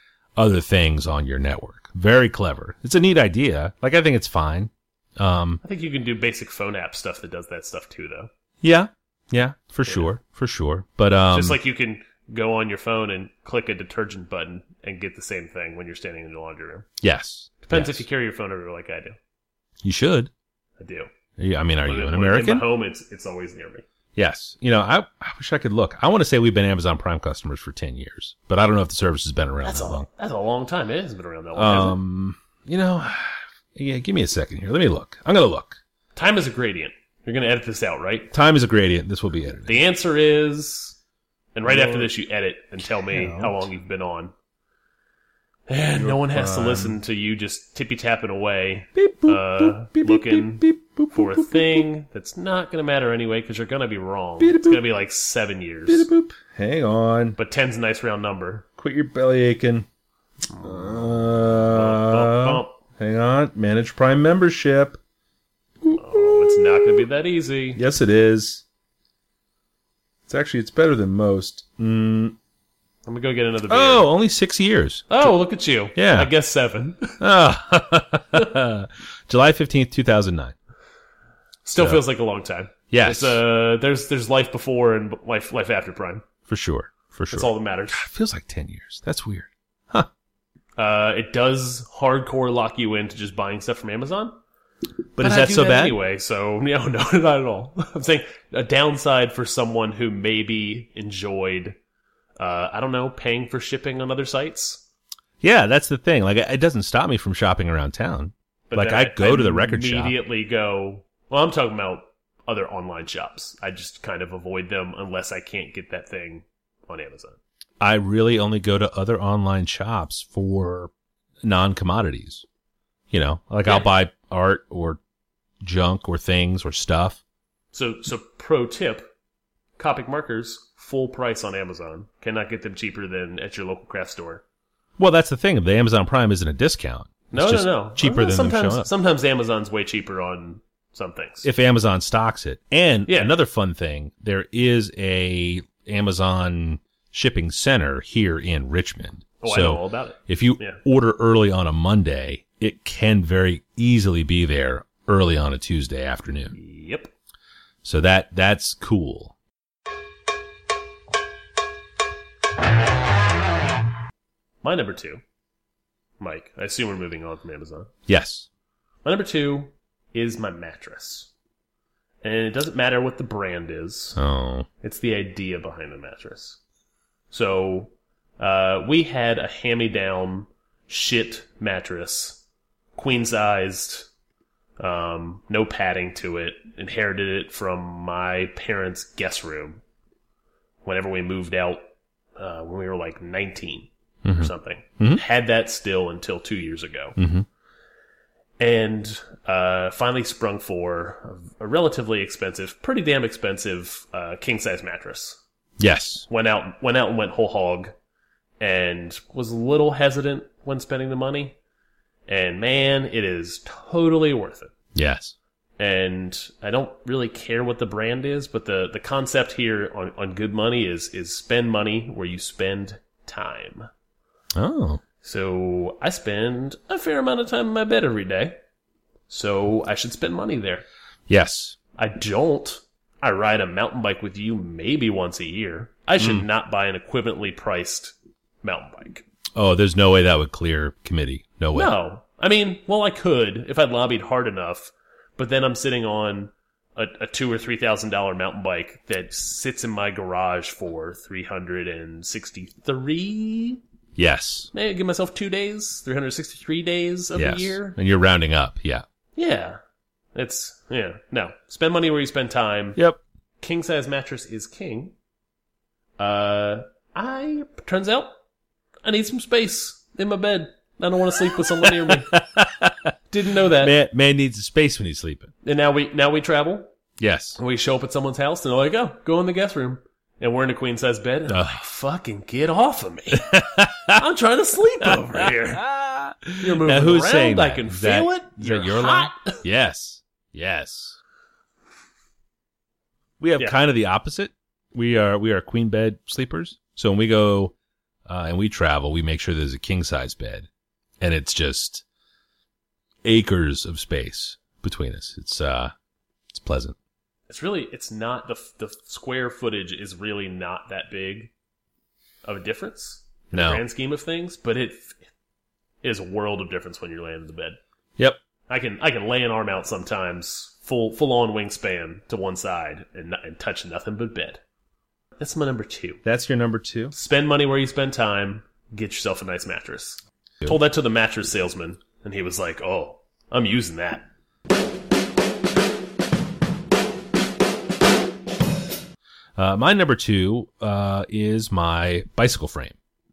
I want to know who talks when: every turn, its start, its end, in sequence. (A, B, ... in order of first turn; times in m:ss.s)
0:00.4-0:05.6 A
0:05.6-0:08.3 B
0:08.6-0:11.6 A
0:11.3-0:16.9 B
0:17.0-0:18.0 A
0:17.6-0:19.2 B
0:19.8-0:20.3 A
0:20.8-0:21.1 B
0:21.4-0:22.6 A
0:21.8-0:23.8 B
0:24.2-0:30.1 A
0:29.6-0:32.0 B
0:31.5-0:35.8 A
0:36.1-0:38.3 B
0:38.3-0:39.8 A
0:39.7-0:41.0 B
0:41.5-0:44.3 B
0:41.6-0:42.1 A
0:42.9-0:43.6 A
0:45.7-0:56.1 B
0:46.0-0:47.0 A
0:48.9-0:51.8 A
0:54.4-0:54.8 A
0:55.9-0:57.4 A
0:57.4-0:58.6 B
0:58.8-0:59.9 A
1:00.5-1:05.0 A
1:00.6-1:01.1 B
1:01.7-1:02.8 B
1:05.8-1:07.0 A
1:06.0-1:07.8 B
1:07.7-1:08.6 A
1:10.3-1:12.4 A
1:13.0-1:14.1 B
1:13.7-1:15.3 A
1:15.1-1:17.2 B
1:15.9-1:16.3 A
1:17.2-1:20.6 A
1:21.6-1:26.2 B
1:21.8-1:22.0 A
1:22.9-1:23.4 A
1:26.5-1:30.1 A
1:27.3-1:28.0 B
1:30.8-1:34.4 B
1:35.1-1:36.0 A
1:35.2-1:41.8 B
1:42.4-1:44.8 B
1:45.4-1:50.2 A
1:48.7-1:57.4 B
1:57.8-2:00.9 A
2:01.4-2:02.4 A
2:03.1-2:05.0 A
2:05.6-2:07.2 A
2:07.7-2:09.1 B
2:09.8-2:14.4 B
2:15.0-2:18.9 A
2:17.3-2:21.5 B
2:21.4-2:36.6 A
2:23.1-2:23.3 B
2:29.4-2:30.8 B
2:36.5-2:37.1 B
2:37.8-2:39.4 A
2:44.6-2:45.2 B
2:46.2-2:47.9 B
2:48.1-2:48.5 A
2:49.0-2:51.3 B
2:52.2-2:54.2 B
2:54.2-2:54.7 A
2:54.8-2:56.6 B
2:57.3-3:02.4 B
3:03.0-3:04.1 B
3:04.8-3:09.8 B
3:10.8-3:11.8 B
3:12.4-3:17.2 B
3:14.2-3:15.2 A
3:17.2-3:17.4 A
3:18.6-3:25.4 B
3:25.8-3:26.2 A
3:26.3-3:27.9 B
3:28.6-3:31.6 B
3:32.3-3:34.7 B
3:34.9-3:35.4 A
3:35.8-3:43.9 B
3:44.6-3:45.0 A
3:45.2-3:48.6 B
3:49.3-3:50.8 B
3:51.3-3:51.8 A
3:52.0-3:59.2 B
3:59.6-4:01.9 A
4:01.7-4:13.8 B
4:14.2-4:14.7 A
4:14.7-4:18.0 B
4:17.3-4:19.0 A
4:19.4-4:19.8 B
4:20.3-4:23.0 B
4:23.6-4:25.1 B
4:26.2-4:28.3 B
4:29.0-4:32.3 B
4:32.1-4:33.1 A
4:33.3-4:33.9 B
4:33.8-4:35.5 A
4:35.6-4:36.9 B
4:37.2-4:37.6 A
4:37.6-4:45.8 B
4:41.5-4:41.8 A
4:43.3-4:44.2 A
4:45.0-4:51.2 A
4:46.6-4:49.6 B
4:53.4-4:57.7 A
4:58.3-5:00.7 A
5:01.2-5:02.0 A
5:03.2-5:05.9 A
5:06.5-5:07.0 A
5:07.5-5:11.5 B
5:12.4-5:15.2 B
5:13.5-5:13.8 A
5:16.0-5:17.8 B
5:18.7-5:24.6 B
5:25.4-5:26.2 B
5:26.2-5:27.1 A
5:27.1-5:34.2 B
5:39.6-5:43.0 A